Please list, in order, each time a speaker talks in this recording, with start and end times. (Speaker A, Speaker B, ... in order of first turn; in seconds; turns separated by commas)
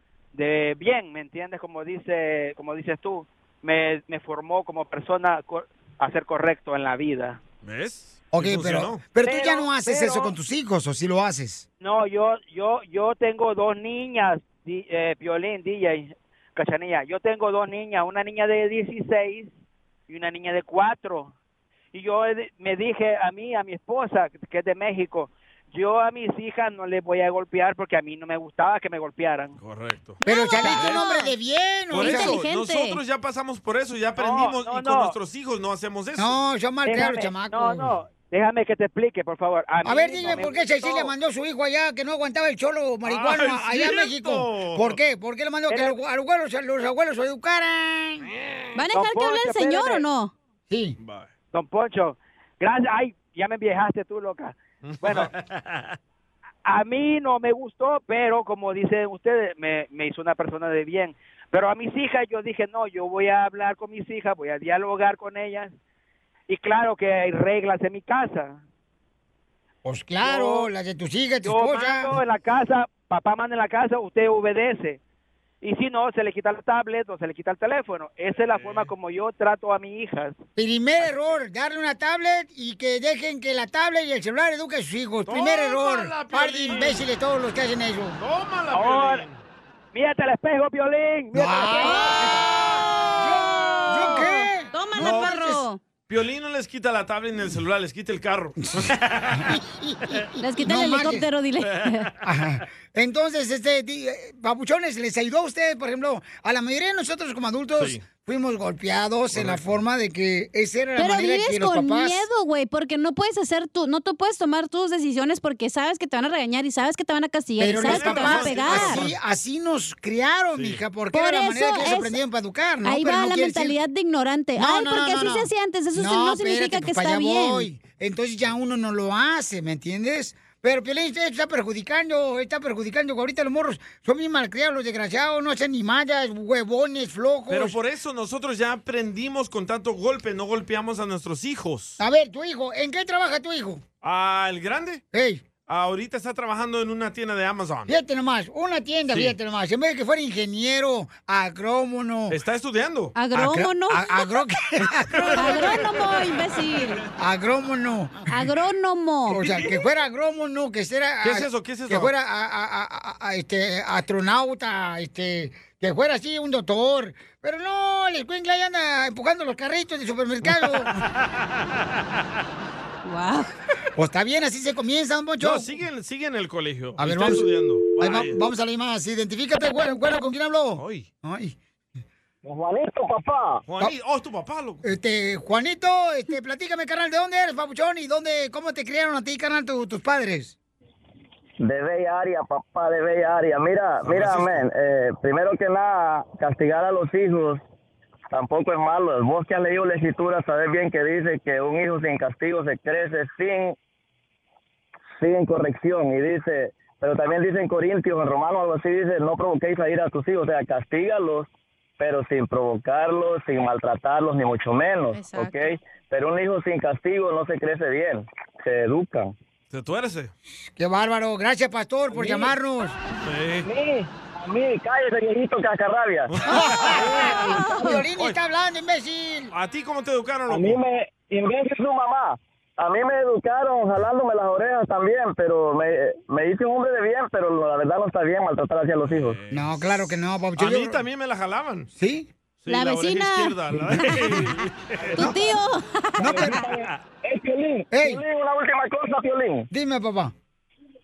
Speaker A: 0.3-7.4, Speaker B: 7.6-9.0, Speaker C: 8.3-11.7, Speaker A: 9.2-10.3, Speaker A: 11.8-19.5, Speaker A: 20.1-21.3, Speaker A: 21.9-29.6, Speaker B: 29.6-31.0, Speaker D: 30.2-31.3, Speaker C: 30.2-32.4, Speaker B: 31.9-36.4, Speaker D: 32.0-33.0, Speaker A: 34.2-35.1, Speaker C: 36.2-37.9, Speaker A: 36.9-41.1, Speaker C: 39.8-48.3, Speaker B: 43.0-45.0, Speaker A: 45.7-46.0, Speaker D: 48.8-50.3, Speaker A: 48.9-50.0, Speaker C: 50.7-51.0, Speaker B: 51.0-51.3, Speaker A: 51.5-55.3, Speaker B: 54.9-56.0, Speaker A: 56.7-65.7, Speaker A: 66.5-68.6, Speaker C: 69.8-72.2, Speaker A: 70.2-70.7, Speaker A: 71.4-75.0, Speaker A: 75.6-80.4, Speaker B: 78.4-78.9, Speaker C: 80.6-88.2, Speaker B: 85.3-87.0, Speaker B: 88.2-89.4, Speaker A: 88.7-89.2, Speaker A: 89.9-92.2, Speaker C: 91.3-92.2, Speaker D: 91.7-92.2, Speaker C: 93.2-95.7, Speaker D: 93.2-95.8, Speaker B: 95.0-95.4, Speaker B: 96.1-99.6, Speaker C: 99.4-101.3, Speaker D: 100.4-102.1, Speaker B: 101.6-102.1, Speaker C: 102.2-112.3, Speaker B: 109.3-109.7, Speaker D: 111.0-119.1, Speaker C: 117.6-123.8, Speaker B: 117.8-119.2, Speaker B: 120.5-120.8, Speaker D: 121.1-122.2, Speaker D: 122.8-127.7, Speaker C: 124.6-137.8, Speaker B: 137.5-142.0, Speaker C: 142.0-143.8, Speaker B: 144.0-145.0, Speaker C: 145.1-145.4, Speaker B: 145.7-147.9, Speaker C: 147.9-152.4, Speaker B: 149.1-149.4, Speaker B: 152.3-153.2, Speaker D: 153.2-154.4, Speaker C: 153.3-156.0, Speaker B: 155.1-156.0, Speaker D: 155.2-157.0, Speaker C: 157.2-158.4, Speaker D: 158.3-159.4, Speaker C: 159.3-171.0, Speaker B: 159.4-159.7, Speaker B: 161.2-162.1, Speaker B: 170.5-171.8, Speaker D: 173.1-173.5, Speaker C: 174.0-175.7, Speaker B: 175.4-178.4, Speaker C: 177.0-181.6, Speaker B: 180.8-181.1, Speaker E: 182.4-183.6, Speaker B: 183.7-184.8, Speaker C: 184.8-190.5, Speaker E: 191.6-197.6, Speaker B: 194.0-194.6, Speaker E: 198.3-203.8, Speaker E: 205.2-219.3, Speaker D: 215.1-215.8, Speaker B: 219.7-220.3, Speaker C: 220.8-223.0, Speaker B: 223.2-223.7, Speaker E: 223.7-226.4, Speaker B: 226.3-227.6, Speaker C: 226.5-229.5, Speaker D: 227.4-228.1, Speaker B: 229.5-230.8, Speaker E: 230.5-239.4, Speaker B: 239.1-241.9, Speaker C: 239.5-241.0, Speaker C: 242.0-242.3, Speaker B: 242.6-245.3, Speaker D: 242.7-243.6, Speaker C: 243.9-244.2, Speaker D: 245.2-246.5, Speaker C: 246.2-246.6, Speaker E: 246.2-249.7, Speaker B: 246.7-247.0, Speaker C: 247.9-248.2, Speaker C: 249.7-250.3